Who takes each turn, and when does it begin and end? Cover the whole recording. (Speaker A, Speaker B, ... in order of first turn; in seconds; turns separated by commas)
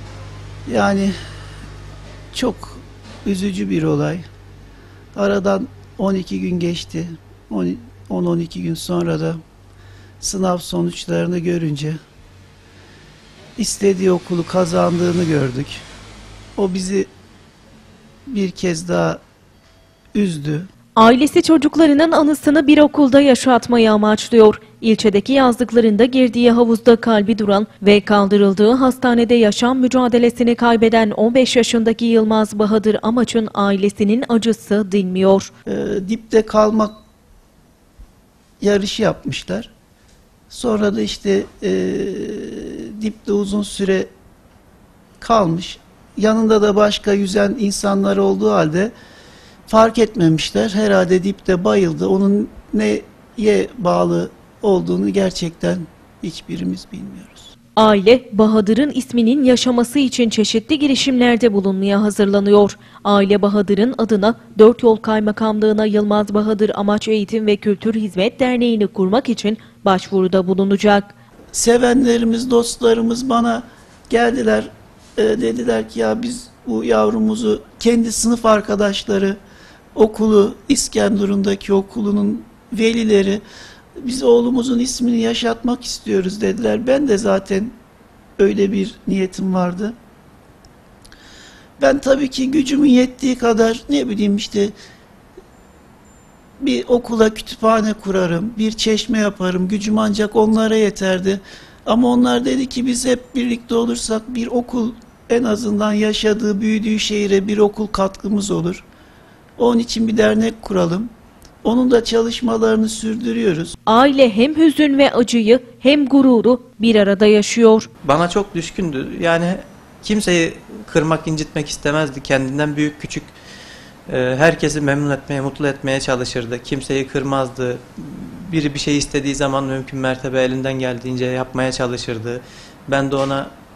Speaker A: 0.7-1.1, Speaker A: 2.3-4.2, Speaker A: 5.1-9.4, Speaker A: 10.2-12.0, Speaker A: 13.6-15.8, Speaker A: 16.6-17.1, Speaker A: 18.3-19.2, Speaker A: 20.1-20.7, Speaker B: 20.9-35.5, Speaker A: 35.7-37.0, Speaker A: 38.6-39.7, Speaker A: 40.5-44.1, Speaker A: 45.2-48.9, Speaker A: 49.7-57.5, Speaker B: 57.8-71.1, Speaker A: 71.5-79.4, Speaker A: 79.9-83.4, Speaker A: 84.0-87.7, Speaker A: 88.4-90.0, Speaker A: 91.8-94.7, Speaker A: 96.6-108.8, Speaker A: 109.6-111.1, Speaker A: 111.6-113.8, Speaker B: 113.9-117.9, Speaker C: 118.0-123.3, Speaker C: 124.1-133.5